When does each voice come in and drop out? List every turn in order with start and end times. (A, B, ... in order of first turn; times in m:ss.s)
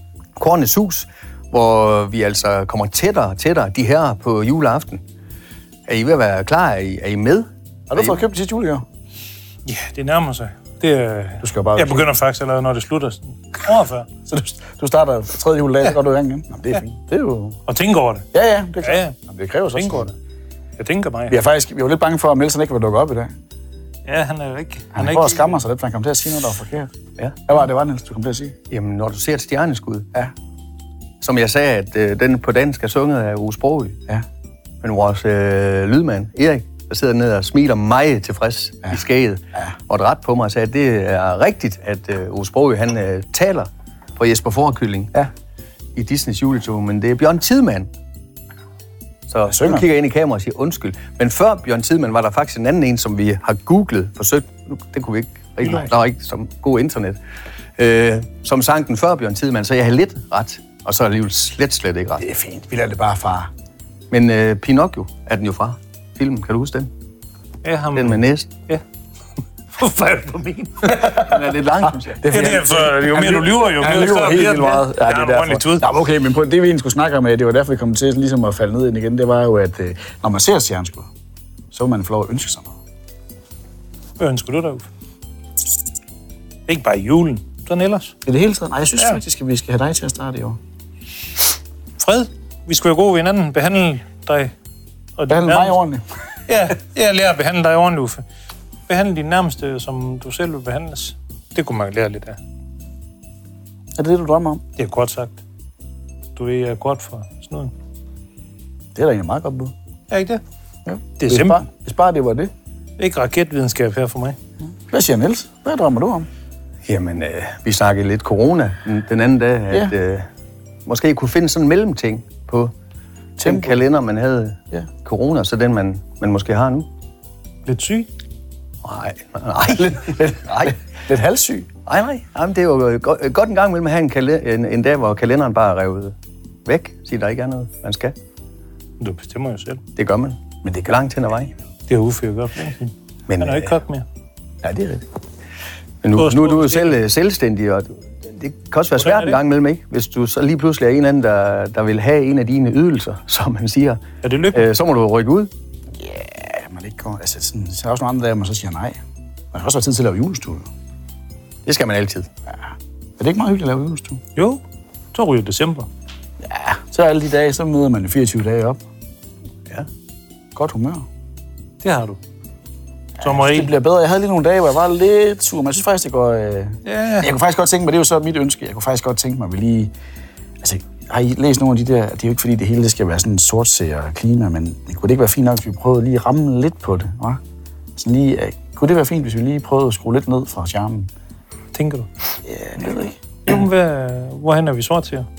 0:00.4-0:05.0 A
0:05.9-0:08.2 A
0:07.9-0:08.8 B
0:09.7-0:14.1 C
0:11.4-0:12.1 B
0:14.3-0:17.6 B
0:17.7-0:18.3 C
0:18.3-0:20.1 B
0:18.8-0:19.2 C
0:19.8-0:20.1 C
0:20.8-0:21.4 C
0:21.3-0:23.3 B
0:24.0-0:25.6 C
0:25.0-0:26.9 B
0:27.4-0:28.6 B
0:28.7-0:30.1 A
0:31.2-0:34.0 A
0:34.8-0:45.2 A
0:46.0-0:47.9 A
0:49.3-0:57.2 A
0:49.5-0:49.9 B
0:55.6-0:55.9 C
0:57.8-1:02.3 A
1:02.2-1:03.5 B
1:04.1-1:06.9 A
1:07.6-1:08.8 C
1:07.9-1:08.5 A
1:09.7-1:11.0 C
1:10.9-1:12.6 A
1:11.8-1:21.1 B
1:12.3-1:15.8 C
1:21.7-1:22.7 B
1:24.2-1:24.8 C
1:26.7-1:28.1 C
1:28.2-1:30.6 B
1:32.0-1:34.5 C
1:35.2-1:35.8 C
1:35.3-1:36.0 B
1:36.5-1:38.2 C
1:38.9-1:42.4 C
1:44.0-1:44.6 B
1:44.8-1:45.4 C
1:46.4-1:47.7 C
1:48.9-1:49.7 B
1:50.1-1:50.4 C
1:50.8-1:52.5 B
1:51.2-1:51.6 C
1:53.0-1:54.4 C
1:54.9-1:56.3 B
1:56.8-2:00.3 A
2:00.8-2:02.7 A
2:03.4-2:03.8 B
2:03.4-2:06.9 A
2:07.7-2:08.1 C
2:08.8-2:10.8 A
2:09.8-2:11.7 B
2:11.8-2:16.1 A
2:16.7-2:18.1 A
2:19.0-2:19.8 C
2:20.0-2:21.5 A
2:20.6-2:21.0 B
2:21.9-2:24.0 C
2:23.3-2:23.8 A
2:24.6-2:25.0 B
2:26.0-2:34.0 A
2:26.1-2:27.0 C
2:29.0-2:29.4 C
2:34.2-2:34.7 C
2:34.5-2:35.5 A
2:36.0-2:39.0 B
2:39.5-2:40.7 B
2:41.6-2:42.3 A
2:43.2-2:44.2 B
2:44.4-2:44.6 C
2:45.1-2:45.9 C
2:46.4-2:48.8 B
2:50.5-2:51.0 B
2:51.8-2:52.2 C
2:53.2-2:59.9 B
2:53.2-2:53.7 C
2:56.8-2:57.3 C
3:00.6-3:07.4 B
3:08.0-3:11.1 B
3:11.7-3:12.1 C
3:12.4-3:13.2 B
3:13.4-3:15.3 C